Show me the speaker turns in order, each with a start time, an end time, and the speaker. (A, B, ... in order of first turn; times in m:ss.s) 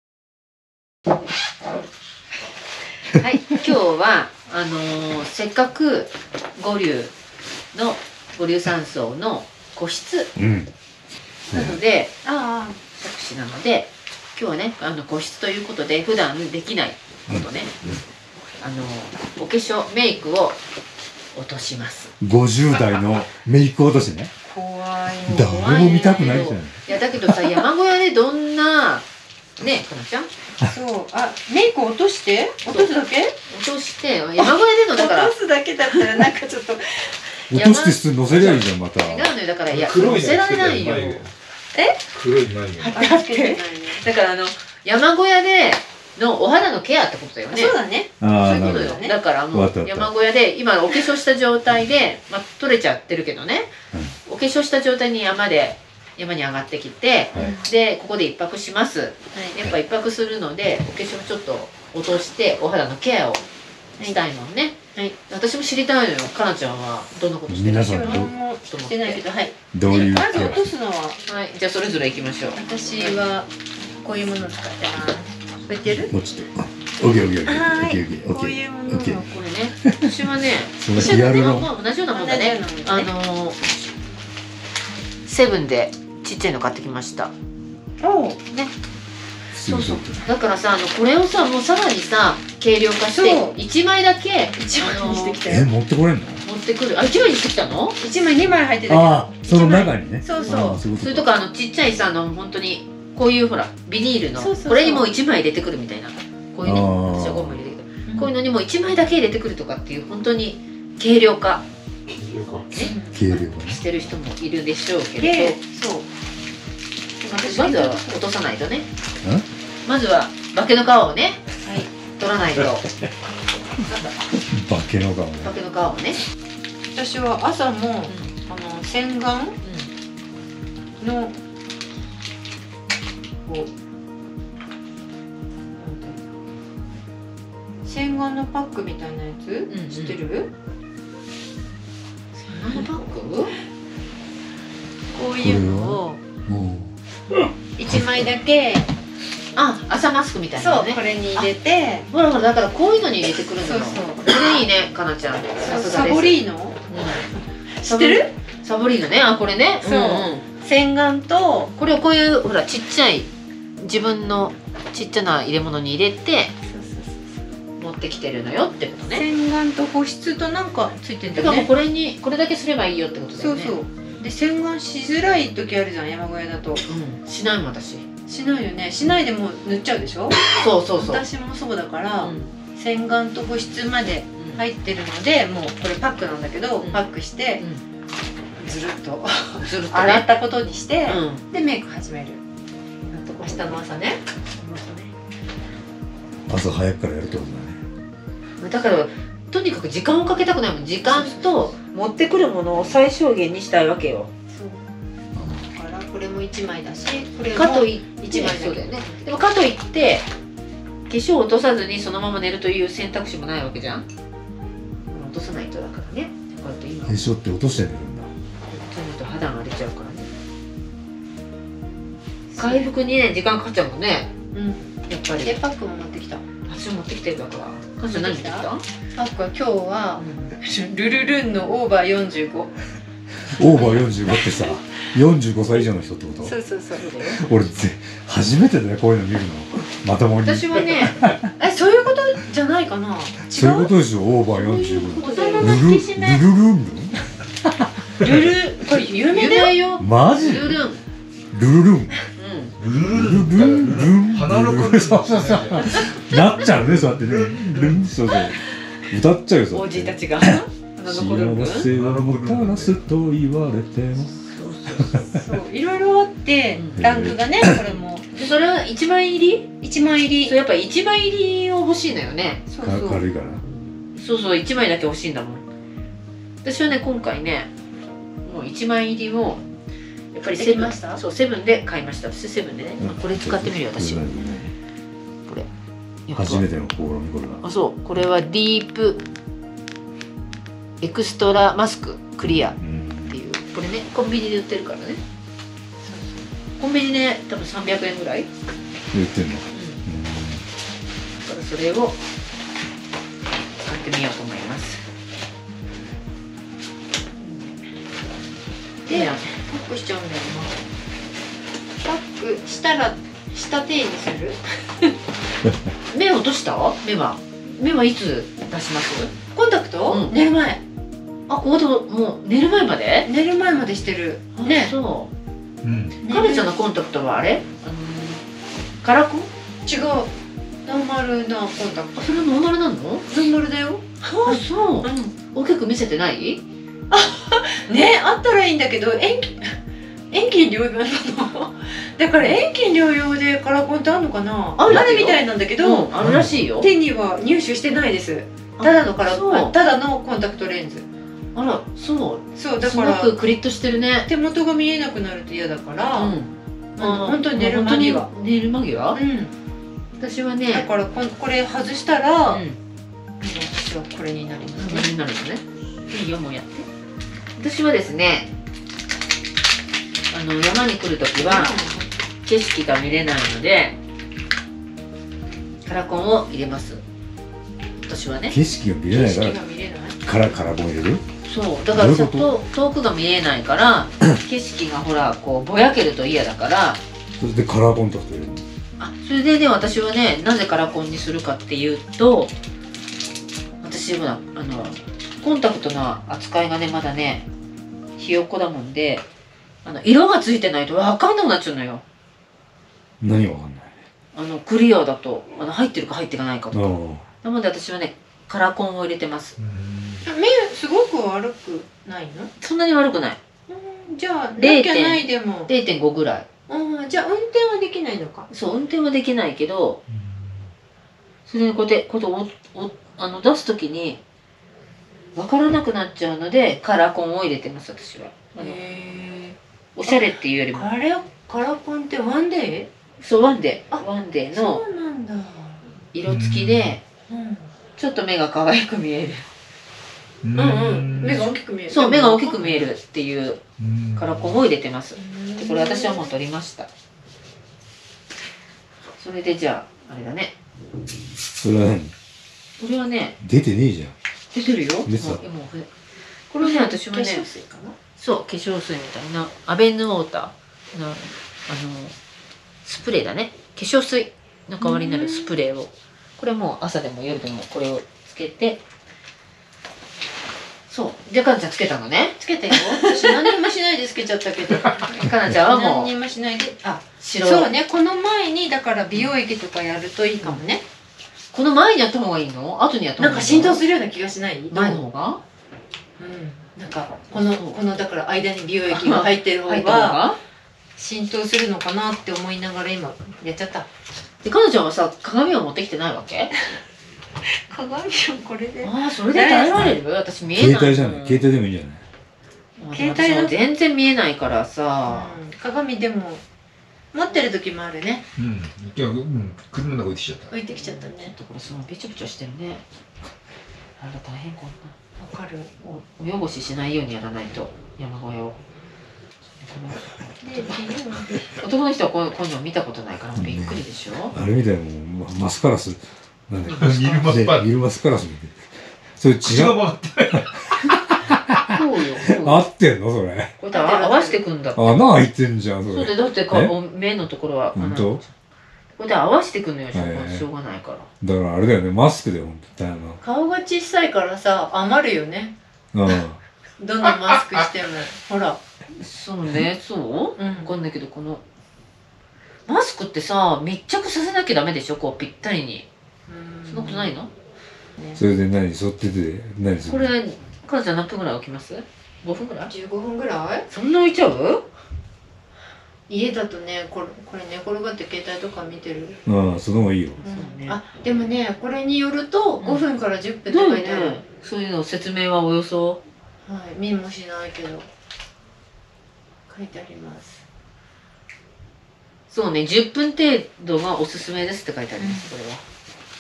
0:03.1-0:07.1 A
0:07.7-0:10.3 A
0:10.4-0:10.7 B
0:11.5-0:11.8 B
0:11.5-0:12.1 A
0:12.2-0:12.8 C
0:13.0-0:17.8 A
0:17.3-0:18.0 B
0:18.6-0:20.6 A
0:21.3-0:22.1 A
0:22.2-0:24.3 B
0:24.4-0:27.0 C
0:25.2-0:29.1 A
0:25.3-0:26.8 B
0:29.6-0:30.3 A
0:30.6-0:33.4 C
0:32.6-0:32.9 A
0:33.5-0:35.3 A
0:34.4-0:37.4 C
0:35.8-0:36.1 A
0:37.5-0:39.3 B
0:37.5-0:41.2 A
0:39.7-0:41.3 D
0:42.1-0:43.0 D
0:42.8-0:44.1 C
0:42.8-0:47.8 A
0:47.5-0:49.1 C
0:48.2-0:50.1 B
0:48.3-0:53.7 A
0:54.3-1:03.4 A
0:57.4-0:57.6 C
1:04.0-1:04.8 A
1:05.3-1:09.2 A
1:07.5-1:08.3 B
1:07.9-1:11.2 C
1:09.7-1:10.6 B
1:11.3-1:13.3 A
1:12.6-1:16.1 C
1:16.0-1:19.2 B
1:17.5-1:19.2 C
1:19.2-1:23.6 A
1:19.8-1:20.1 B
1:20.8-1:21.7 B
1:20.9-1:23.1 C
1:25.3-1:27.3 A
1:28.0-1:28.4 C
1:29.5-1:30.2 B
1:29.6-1:35.4 A
1:33.1-1:33.6 C
1:34.6-1:35.7 C
1:35.5-1:36.4 B
1:36.4-1:38.0 A
1:38.0-1:40.8 C
1:38.9-1:41.3 B
1:40.4-1:51.6 A
1:44.4-1:45.1 C
1:46.6-1:47.6 B
1:48.1-1:48.3 C
1:52.1-1:52.7 D
1:52.7-1:55.6 A
1:52.8-1:53.8 B
1:52.8-1:53.3 C
1:55.2-1:56.1 C
1:57.2-1:58.2 C
1:57.3-1:58.9 A
1:59.9-2:01.4 A
2:02.1-2:02.9 A
2:03.9-2:04.1 C
2:04.5-2:05.5 B
2:05.4-2:06.2 A
2:06.9-2:09.6 C
2:08.1-2:08.3 A
2:09.6-2:09.9 A
2:11.0-2:11.3 C
2:13.5-2:13.7 C
2:15.8-2:16.2 C
2:17.8-2:20.5 C
2:19.7-2:20.2 A
2:22.4-2:23.5 A
2:25.1-2:26.2 C
2:25.4-2:28.2 B
2:27.8-2:28.9 C
2:29.6-2:31.5 A
2:30.6-2:32.1 C
2:32.1-2:37.3 A
2:33.6-2:34.3 C
2:35.6-2:36.8 C
2:37.7-2:38.3 C
2:37.8-2:40.4 A
2:39.8-2:41.7 C
2:41.8-2:46.5 A
2:46.7-2:47.3 C
2:47.8-2:49.2 A
2:49.1-2:51.7 C
2:51.3-2:53.8 A
2:53.4-2:56.8 C
2:56.9-2:58.0 A
2:58.3-3:07.6 C
3:00.4-3:01.2 A
3:02.2-3:02.5 A
3:04.4-3:04.6 A
3:07.6-3:07.8 A
3:08.6-3:12.4 C
3:09.6-3:10.3 A
3:11.1-3:11.4 A
3:13.1-3:13.8 A
3:13.4-3:14.2 C
3:14.6-3:15.1 A
3:16.5-3:17.8 B
3:18.6-3:24.3 A
3:21.0-3:21.8 C
3:24.5-3:24.8 C
3:25.4-3:25.7 B
3:25.7-3:29.4 C
3:27.5-3:30.3 A
3:31.1-3:34.0 A
3:35.1-3:37.2 A
3:37.1-3:38.3 B
3:38.7-3:40.3 A
3:42.5-3:42.9 C
3:42.6-3:44.3 A
3:44.5-3:46.4 C
3:45.1-3:45.6 A
3:46.7-3:48.8 A
3:48.0-3:52.8 C
3:50.2-3:50.5 A
3:53.5-3:56.6 B
3:53.6-3:54.7 C
3:56.4-3:57.1 C
3:56.9-3:57.6 A
3:57.3-4:01.5 B
4:00.4-4:01.2 A
4:01.6-4:03.9 C
4:03.5-4:07.9 B
4:04.5-4:06.4 A
4:05.2-4:06.0 C
4:08.2-4:09.8 C
4:09.3-4:11.0 A
4:10.0-4:10.8 B
4:11.5-4:12.1 B
4:12.4-4:12.8 A
4:12.8-4:18.1 D
4:13.1-4:24.3 B
4:19.7-4:21.9 A
4:21.9-4:23.0 D
4:24.2-4:25.4 A
4:24.9-4:25.2 B
4:25.3-4:28.3 C
4:26.7-4:27.1 A
4:27.0-4:27.8 B
4:28.3-4:29.7 A
4:29.8-4:30.6 C
4:30.4-4:32.6 A
4:32.7-4:33.2 C
4:32.8-4:33.6 B
4:34.2-4:35.6 A
4:36.6-4:37.7 A
4:38.4-4:39.6 A
4:40.3-4:44.2 A
4:40.5-4:41.2 C
4:43.0-4:44.7 B
4:46.3-4:46.7 A
4:46.4-4:47.6 B
4:47.6-4:49.2 A
4:51.0-4:55.2 A
4:52.8-4:53.4 B
4:56.1-4:56.4 C
4:56.8-4:58.5 A
4:59.1-5:00.6 B
4:59.7-5:00.0 A
5:01.4-5:02.2 A
5:03.8-5:05.0 A
5:07.4-5:07.8 A
5:09.1-5:10.8 C
5:09.1-5:09.6 A
5:12.0-5:14.6 C
5:16.1-5:19.3 A
5:19.5-5:20.8 C
5:20.1-5:20.4 A
5:21.5-5:23.3 A
5:23.2-5:25.0 C
5:24.6-5:25.3 A
5:25.8-5:26.2 D
5:26.2-5:26.8 C
5:26.3-5:28.5 A
5:29.0-5:29.5 A
5:29.9-5:30.3 C
5:30.9-5:32.3 C
5:32.2-5:33.2 A
5:33.3-5:35.4 C
5:34.4-5:36.6 A
5:37.1-5:39.7 C
5:40.3-5:46.1 C
5:44.8-5:46.9 A
5:46.2-5:46.6 B
5:46.8-5:51.0 C
5:48.8-5:49.7 A
5:51.6-5:54.3 A
5:52.6-5:53.4 C
5:54.3-5:56.4 C
5:56.1-5:59.2 A
5:57.0-5:58.3 C
5:59.1-5:59.5 C
6:00.2-6:00.9 A
6:00.7-6:02.6 C
6:02.5-6:02.8 A
6:03.4-6:05.1 C
6:04.8-6:06.9 A
6:07.6-6:08.5 A
6:10.3-6:11.7 A
6:11.4-6:12.2 C
6:12.4-6:14.0 A
6:15.8-6:17.0 A
6:18.0-6:18.6 A
6:18.5-6:19.6 B
6:19.1-6:20.4 C
6:20.2-6:21.2 B
6:21.4-6:27.0 A
6:21.9-6:22.6 B
6:27.4-6:28.7 B
6:29.0-6:32.5 A
6:33.8-6:37.5 A
6:38.2-6:39.3 A
6:39.8-6:42.0 A
6:43.2-6:43.9 B
6:44.3-6:46.9 A
6:46.7-6:47.2 B
6:47.4-6:49.6 A
6:49.6-6:50.3 D
6:50.2-6:52.5 C
6:52.6-6:53.4 A
6:53.7-6:55.7 C
6:54.6-6:56.5 A
6:56.7-6:58.5 C
6:58.5-7:00.0 A
7:01.5-7:04.2 A
7:05.4-7:08.8 A
7:08.6-7:09.6 C
7:10.0-7:10.9 A
7:10.1-7:12.9 C
7:13.2-7:14.8 A
7:13.9-7:15.9 C
7:16.1-7:17.0 A
7:16.3-7:17.0 D
7:17.3-7:17.7 C
7:18.0-7:19.5 A
7:20.4-7:21.5 D
7:20.6-7:22.9 C
7:21.9-7:23.6 A
7:23.8-7:24.6 D
7:24.2-7:26.9 A
7:25.2-7:26.3 C
7:29.2-7:30.5 A
7:31.6-7:32.1 B
7:32.8-7:33.4 A
7:33.4-7:34.1 B
7:34.5-7:35.9 A
7:35.1-7:35.4 B
7:36.5-7:37.5 A
7:36.6-7:38.0 C
7:38.2-7:42.1 A
7:42.8-7:48.8 A
7:44.8-7:45.6 C
7:50.9-7:53.4 A
7:52.4-8:00.8 C
7:55.0-7:56.1 A
7:57.2-7:57.7 A
8:01.5-8:03.8 A
8:03.2-8:05.0 C
8:04.7-8:05.4 A
8:06.2-8:10.2 C
8:06.8-8:07.8 A
8:08.9-8:10.4 A
8:11.0-8:13.9 C
8:14.4-8:16.7 A
8:17.7-8:19.9 C
8:18.8-8:21.5 A
8:20.5-8:22.0 B
8:22.8-8:25.4 A
8:22.9-8:23.6 C
8:25.1-8:26.4 C
8:27.1-8:28.2 C
8:28.4-8:30.6 D
8:30.5-8:31.4 C
8:30.7-8:32.8 A
8:34.0-8:34.9 A
8:35.2-8:35.7 C
8:35.8-8:38.6 A
8:39.6-8:40.7 A
8:40.4-8:41.5 C
8:41.5-8:44.4 A
8:43.4-8:48.6 B
8:46.8-8:47.7 D
8:49.2-8:49.8 B
8:49.4-8:50.5 D
8:51.7-8:52.6 A
8:52.4-8:53.6 B
8:53.6-8:55.0 A
8:53.7-8:54.4 C
8:54.8-8:56.7 B
8:55.9-8:58.3 A
8:57.8-8:58.2 B
8:59.0-9:01.1 A
8:59.9-9:00.4 B
9:01.2-9:03.2 B
9:03.2-9:05.5 C
9:05.9-9:06.4 B
9:06.8-9:08.6 C
9:09.0-9:11.4 A
9:10.4-9:10.7 C
9:12.7-9:15.9 A
9:16.3-9:17.2 C
9:16.7-9:17.3 A
9:18.2-9:20.1 B
9:19.8-9:22.7 A
9:22.7-9:23.7 C
9:23.7-9:24.6 A
9:26.1-9:29.2 C
9:29.3-9:30.2 B
9:30.2-9:30.8 A
9:30.2-9:34.2 C
9:32.6-9:32.9 A
9:33.5-9:36.0 A
9:36.4-9:37.9 C
9:39.5-9:40.4 C
9:42.3-9:45.6 A
9:45.0-9:45.3 C